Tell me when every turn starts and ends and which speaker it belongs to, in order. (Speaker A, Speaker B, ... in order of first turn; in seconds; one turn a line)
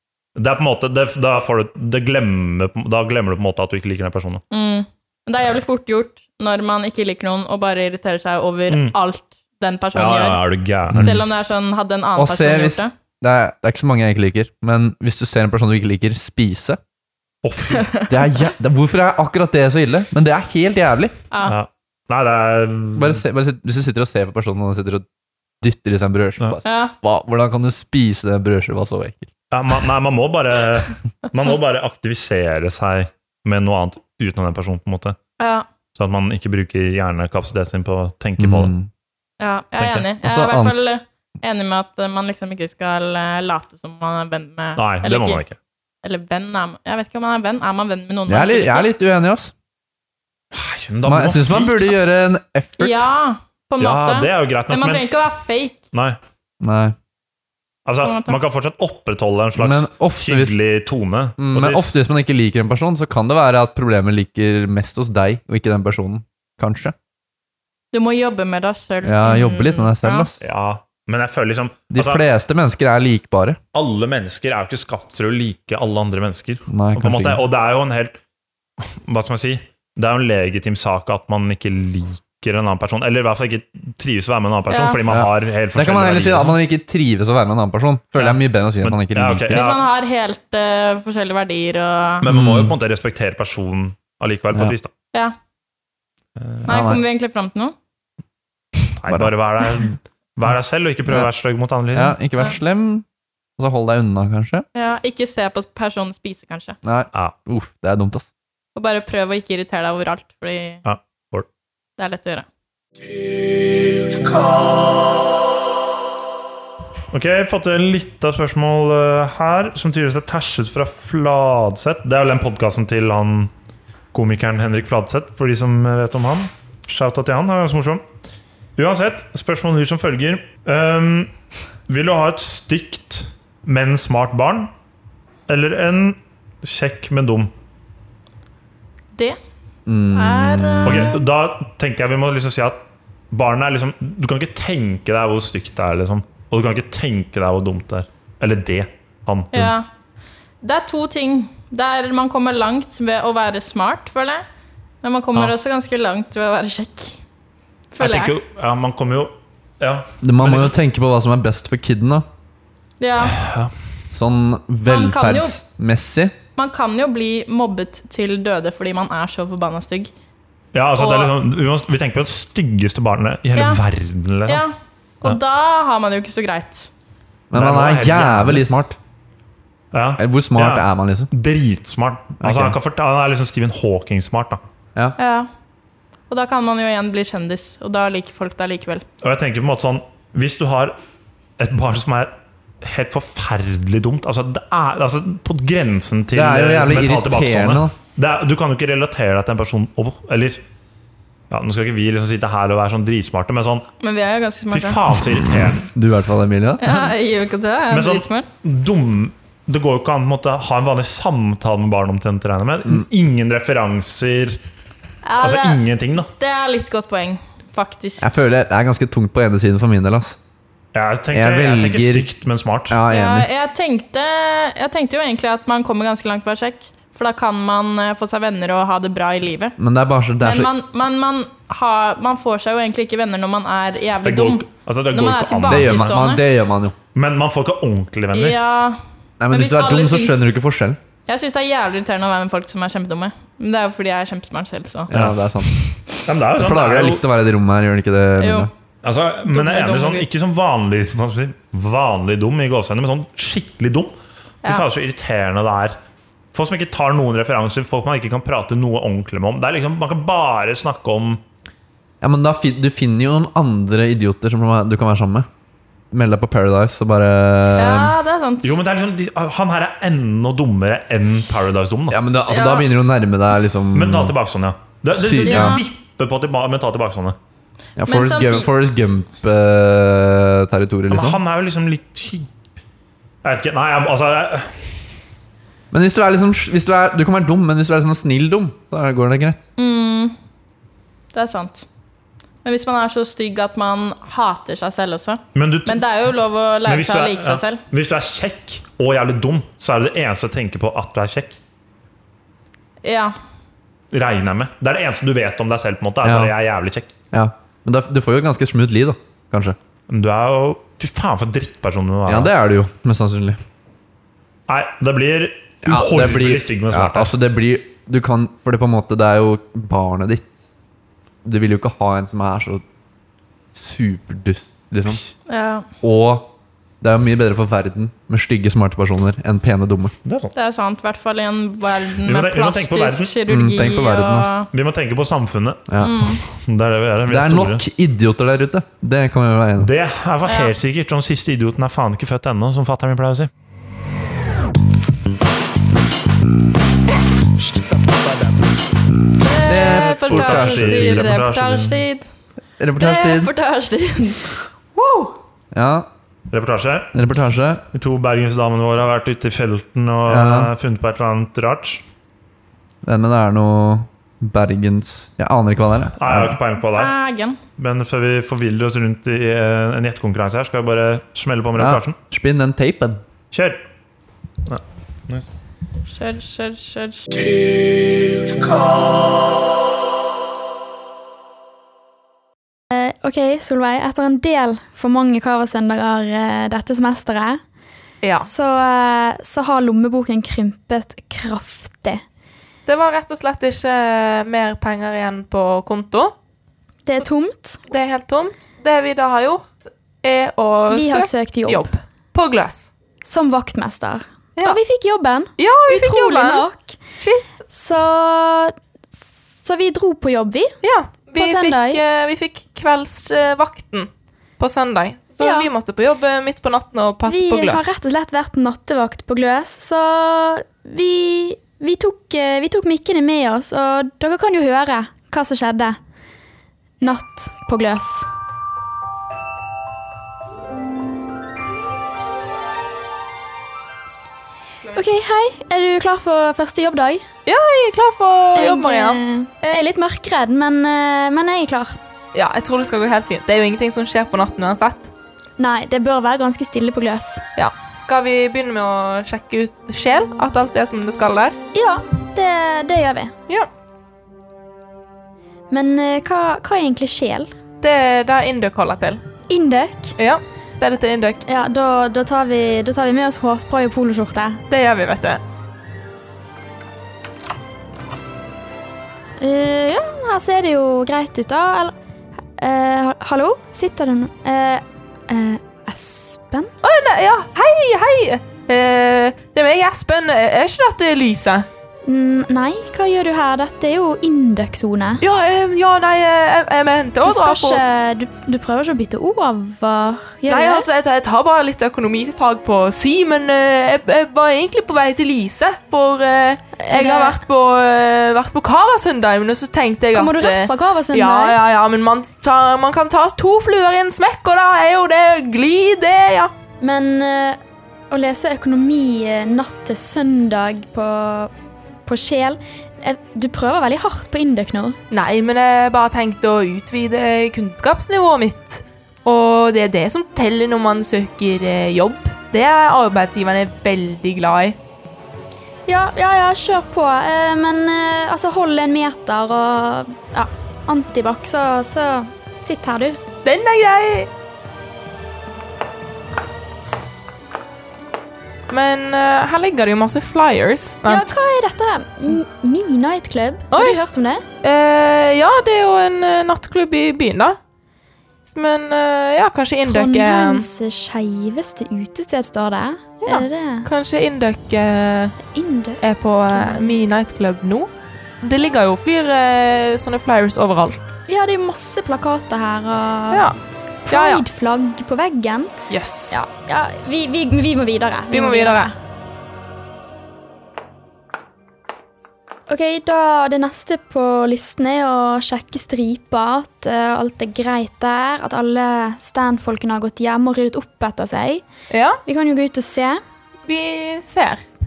Speaker A: 0.3-4.4
Speaker B: 4.5-12.9
Speaker A: 8.7-8.9
Speaker A: 9.9-11.2
Speaker C: 10.9-11.2
Speaker C: 12.2-16.8
Speaker A: 17.4-17.9
Speaker B: 17.7-18.1
Speaker C: 18.1-21.1
Speaker A: 21.4-23.2
Speaker C: 22.9-25.1
Speaker C: 25.6-29.3
Speaker B: 26.6-26.9
Speaker A: 29.5-35.2
Speaker B: 35.4-35.6
Speaker A: 35.9-38.7
Speaker C: 38.4-38.9
Speaker B: 39.4-45.4
Speaker A: 39.8-40.1
Speaker C: 40.2-40.8
Speaker A: 44.8-45.6
Speaker B: 46.0-48.9
Speaker C: 48.3-49.5
Speaker A: 50.5-52.0
Speaker C: 51.0-53.0
Speaker B: 52.8-55.8
Speaker A: 53.8-55.0
Speaker A: 55.9-56.2
Speaker C: 56.6-57.0
Speaker A: 57.9-61.9
Speaker B: 58.0-58.4
Speaker C: 59.6-60.6
Speaker C: 61.4-66.9
Speaker B: 67.9-70.3
Speaker C: 69.0-70.3
Speaker A: 70.4-72.2
Speaker C: 71.9-73.6
Speaker A: 73.7-78.2
Speaker C: 76.7-77.4
Speaker A: 78.8-86.6
Speaker B: 84.7-85.0
Speaker C: 85.1-89.7
Speaker A: 88.2-89.8
Speaker B: 89.5-92.2
Speaker A: 92.2-94.9
Speaker C: 92.2-92.8
Speaker A: 96.4-96.7
Speaker B: 96.7-97.7
Speaker C: 96.7-97.0
Speaker A: 99.0-102.2
Speaker C: 99.1-99.3
Speaker C: 101.9-103.0
Speaker C: 103.6-104.7
Speaker B: 104.7-106.8
Speaker C: 106.8-108.3
Speaker B: 108.7-110.8
Speaker A: 110.8-111.5
Speaker B: 112.0-112.5
Speaker A: 117.1-123.5
Speaker A: 124.1-128.0
Speaker A: 128.8-131.3
Speaker A: 131.9-134.7
Speaker A: 135.5-137.5
Speaker C: 139.8-141.1
Speaker B: 140.1-141.2
Speaker A: 140.8-149.7
Speaker B: 149.5-149.8
Speaker B: 150.6-154.4
Speaker B: 155.0-157.2
Speaker B: 157.9-158.3
Speaker A: 158.0-160.7
Speaker C: 160.2-162.2
Speaker B: 163.0-163.3
Speaker A: 163.2-163.7
Speaker C: 164.1-166.3
Speaker B: 164.9-165.6
Speaker B: 166.6-170.1
Speaker A: 170.7-174.6
Speaker B: 171.0-171.3
Speaker B: 173.6-173.8
Speaker B: 174.5-176.9
Speaker C: 177.5-179.0
Speaker A: 177.5-178.6
Speaker A: 179.9-184.6
Speaker C: 180.2-181.3
Speaker C: 182.4-182.8
Speaker B: 185.2-185.5
Speaker B: 186.3-189.0
Speaker A: 189.2-191.0
Speaker A: 191.6-200.6
Speaker C: 196.3-197.9
Speaker A: 201.5-203.9
Speaker B: 204.0-205.0
Speaker A: 204.7-205.8
Speaker C: 205.7-207.0
Speaker B: 206.8-208.5
Speaker A: 207.9-214.6
Speaker B: 215.2-215.8
Speaker A: 215.4-216.3
Speaker B: 216.4-218.3
Speaker C: 218.2-220.4
Speaker A: 220.9-223.0
Speaker C: 221.3-222.3
Speaker C: 222.9-223.5
Speaker B: 223.1-229.8
Speaker C: 229.8-230.7
Speaker B: 230.4-236.4
Speaker A: 234.2-236.2
Speaker C: 235.7-236.9
Speaker A: 237.1-238.6
Speaker B: 238.3-239.0
Speaker C: 239.4-241.0
Speaker B: 239.5-240.4
Speaker B: 241.3-245.1
Speaker C: 245.1-245.7
Speaker A: 245.1-245.4
Speaker A: 246.2-247.2
Speaker C: 246.5-248.7
Speaker B: 248.4-248.7
Speaker A: 249.0-256.0
Speaker B: 249.5-250.3
Speaker A: 256.5-261.4
Speaker C: 262.2-265.5
Speaker C: 266.1-268.1
Speaker B: 267.8-268.8
Speaker A: 268.6-272.2
Speaker C: 272.1-274.3
Speaker B: 272.5-272.9
Speaker A: 273.9-277.4
Speaker C: 275.1-275.8
Speaker B: 275.4-275.8
Speaker C: 278.0-281.4
Speaker B: 278.0-278.7
Speaker A: 281.1-282.5
Speaker A: 283.4-284.9
Speaker C: 285.9-289.6
Speaker B: 289.8-290.3
Speaker B: 291.3-291.9
Speaker B: 292.6-297.8
Speaker A: 295.5-296.0
Speaker A: 296.8-301.6
Speaker B: 303.0-303.3
Speaker A: 304.1-307.1
Speaker C: 306.2-306.5
Speaker C: 307.3-309.8
Speaker A: 310.1-312.5
Speaker C: 312.2-313.6
Speaker A: 314.7-317.3
Speaker C: 315.8-320.5
Speaker C: 321.4-322.8
Speaker C: 323.7-325.2
Speaker B: 325.5-325.9
Speaker C: 326.0-330.1
Speaker A: 330.2-330.5
Speaker B: 330.5-334.7
Speaker A: 332.2-333.3
Speaker C: 333.5-334.5
Speaker A: 334.7-335.9
Speaker C: 335.9-336.2
Speaker B: 336.0-336.4
Speaker A: 336.5-337.8
Speaker C: 337.3-339.9
Speaker A: 339.8-343.5
Speaker B: 340.5-340.7
Speaker B: 349.4-352.2
Speaker C: 349.6-351.4
Speaker A: 349.8-352.0
Speaker C: 352.8-353.5
Speaker B: 353.0-355.3
Speaker C: 355.7-356.1
Speaker A: 356.5-357.1
Speaker C: 357.1-357.8
Speaker A: 357.9-362.0
Speaker C: 360.3-360.7
Speaker C: 363.0-366.6
Speaker A: 366.2-367.1
Speaker B: 366.9-367.6
Speaker A: 367.8-372.2
Speaker C: 371.8-373.2
Speaker A: 373.5-373.8
Speaker A: 374.6-375.4
Speaker B: 376.1-377.2
Speaker D: 382.9-387.6
Speaker E: 388.2-388.5
Speaker D: 388.4-392.2
Speaker E: 392.9-396.3
Speaker D: 397.1-397.8
Speaker E: 397.9-402.9
Speaker D: 400.9-401.9
Speaker D: 403.2-407.0
Speaker E: 405.6-406.6
Speaker E: 407.2-407.5
Speaker D: 407.7-410.8
Speaker E: 410.8-417.9
Speaker D: 411.4-412.0
Speaker D: 415.4-415.7
Speaker D: 417.3-426.0
Speaker D: 427.0-428.3
Speaker D: 434.9-437.2
Speaker E: 437.4-439.8
Speaker D: 438.5-442.0
Speaker E: 442.3-445.1
Speaker D: 445.6-447.4
Speaker E: 447.6-451.6
Speaker D: 451.7-453.3
Speaker D: 455.7-457.5
Speaker E: 457.8-459.2
Speaker D: 459.5-460.1
Speaker E: 460.2-461.4
Speaker D: 461.4-464.6
Speaker E: 464.7-465.4
Speaker D: 469.4-471.9
Speaker D: 472.6-476.7
Speaker E: 476.8-481.7
Speaker D: 482.1-485.2
Speaker E: 485.2-487.8
Speaker D: 487.2-490.9
Speaker E: 490.5-506.5
Speaker D: 496.8-497.4
Speaker D: 500.1-501.6
Speaker D: 506.8-507.6
Speaker D: 508.1-511.5
Speaker D: 512.0-515.0
Speaker E: 515.1-524.8
Speaker D: 525.9-533.2
Speaker E: 533.4-534.3
Speaker E: 538.7-541.3
Speaker D: 541.0-544.4
Speaker E: 543.7-544.0
Speaker E: 544.6-547.6
Speaker E: 548.5-550.6
Speaker D: 549.9-553.9
Speaker E: 553.2-555.3
Speaker D: 555.5-556.0
Speaker E: 556.0-557.9
Speaker D: 556.5-556.9
Speaker E: 558.4-561.1
Speaker D: 561.3-563.5
Speaker E: 563.3-563.6
Speaker D: 564.0-565.7
Speaker E: 564.1-564.4
Speaker E: 565.9-566.4
Speaker D: 566.3-568.9
Speaker E: 568.3-568.9
Speaker D: 572.7-581.6
Speaker E: 581.9-582.2
Speaker D: 582.2-583.2
Speaker E: 583.6-584.6